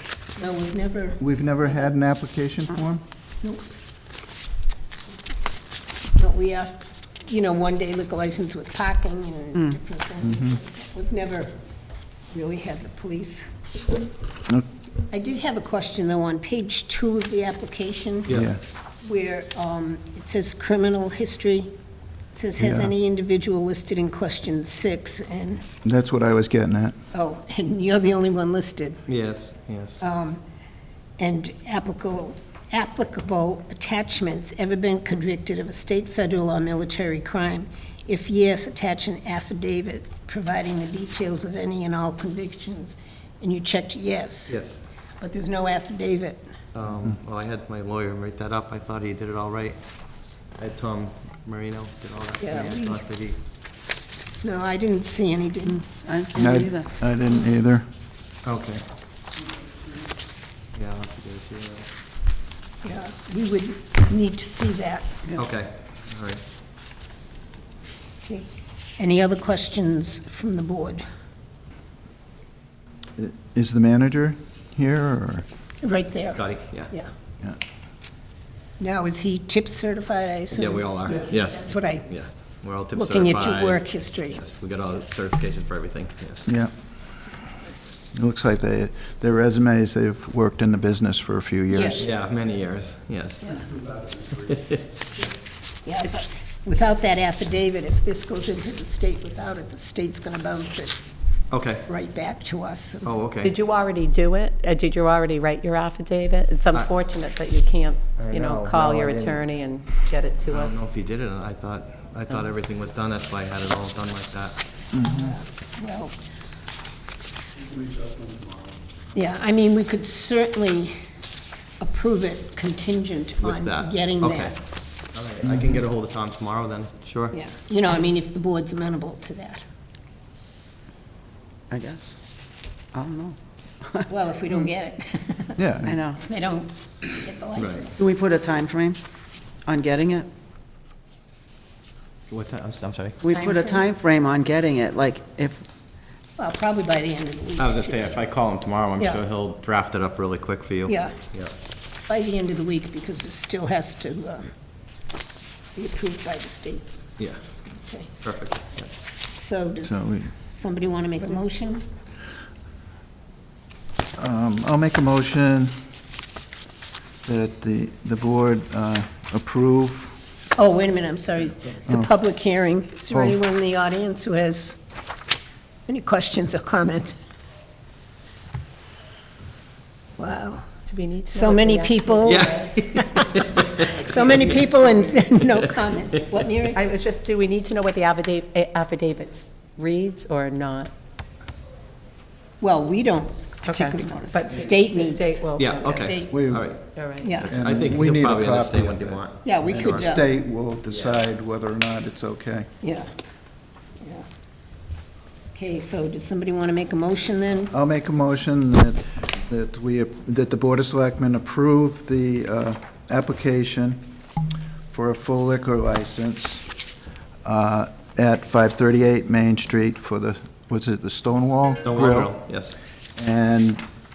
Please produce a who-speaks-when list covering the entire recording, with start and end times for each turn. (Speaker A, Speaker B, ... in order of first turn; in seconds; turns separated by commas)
Speaker A: 0.3-1.2, Speaker B: 1.2-3.0, Speaker A: 6.1-11.5, Speaker B: 10.2-10.6, Speaker A: 12.3-13.5, Speaker A: 15.1-18.3, Speaker B: 18.3-18.6, Speaker A: 19.0-21.7, Speaker A: 22.3-25.6, Speaker B: 22.6-22.9, Speaker B: 25.8-26.9, Speaker A: 27.1-29.0, Speaker C: 29.1-30.0, Speaker A: 30.0-30.4, Speaker A: 31.2-44.6, Speaker C: 44.5-44.8, Speaker A: 45.2-46.4, Speaker C: 46.7-49.8, Speaker C: 50.6-53.4, Speaker A: 52.4-53.0, Speaker A: 54.4-55.8, Speaker D: 55.7-56.9, Speaker B: 56.3-57.8, Speaker C: 58.4-58.8, Speaker C: 60.7-61.9, Speaker A: 62.8-65.2, Speaker C: 65.3-66.4, Speaker A: 68.3-71.0, Speaker B: 73.2-75.4, Speaker A: 75.8-77.1, Speaker C: 76.3-76.9, Speaker A: 78.8-82.1, Speaker C: 80.5-86.5, Speaker A: 82.9-84.4, Speaker B: 86.5-86.7, Speaker B: 88.1-92.1, Speaker A: 91.7-92.1, Speaker C: 92.0-93.6, Speaker C: 94.3-94.8, Speaker A: 95.8-101.0, Speaker C: 101.5-101.8, Speaker A: 101.9-103.1, Speaker C: 103.0-103.5, Speaker E: 103.4-110.8, Speaker C: 108.2-109.4, Speaker C: 110.5-114.6, Speaker B: 114.9-115.3, Speaker A: 115.1-116.2, Speaker A: 119.1-121.0, Speaker A: 121.8-124.5, Speaker C: 123.4-124.5, Speaker C: 125.1-127.3, Speaker A: 127.3-129.6, Speaker D: 131.7-132.2, Speaker D: 132.9-134.1, Speaker A: 134.1-135.6, Speaker B: 135.6-136.0, Speaker D: 135.8-136.2, Speaker A: 136.2-138.1, Speaker C: 137.6-137.8, Speaker D: 138.0-139.0, Speaker D: 139.7-140.3, Speaker C: 142.3-143.2, Speaker D: 143.2-145.6, Speaker A: 143.3-143.8, Speaker A: 146.4-148.1, Speaker C: 147.6-151.5, Speaker A: 150.9-151.2, Speaker A: 152.0-154.5, Speaker A: 155.7-156.9, Speaker A: 157.8-158.1, Speaker C: 158.2-158.9, Speaker A: 159.2-161.8, Speaker B: 159.8-160.3, Speaker B: 164.2-165.8, Speaker B: 167.2-170.2, Speaker A: 170.6-174.8, Speaker A: 175.9-177.1, Speaker A: 180.2-180.8, Speaker E: 180.8-182.8, Speaker A: 181.3-186.8, Speaker C: 182.2-184.6, Speaker C: 185.3-185.6, Speaker E: 186.7-190.9, Speaker A: 192.6-196.3, Speaker E: 193.7-196.2, Speaker C: 195.6-200.2, Speaker B: 196.3-196.7, Speaker E: 196.9-197.4, Speaker A: 197.2-197.5, Speaker B: 197.5-202.7, Speaker A: 199.4-200.3, Speaker C: 200.9-201.2, Speaker A: 202.8-203.1, Speaker A: 204.0-204.2, Speaker A: 205.5-207.7, Speaker B: 207.7-214.0, Speaker B: 214.9-216.7, Speaker B: 217.4-222.4, Speaker C: 221.8-222.8, Speaker B: 223.2-223.8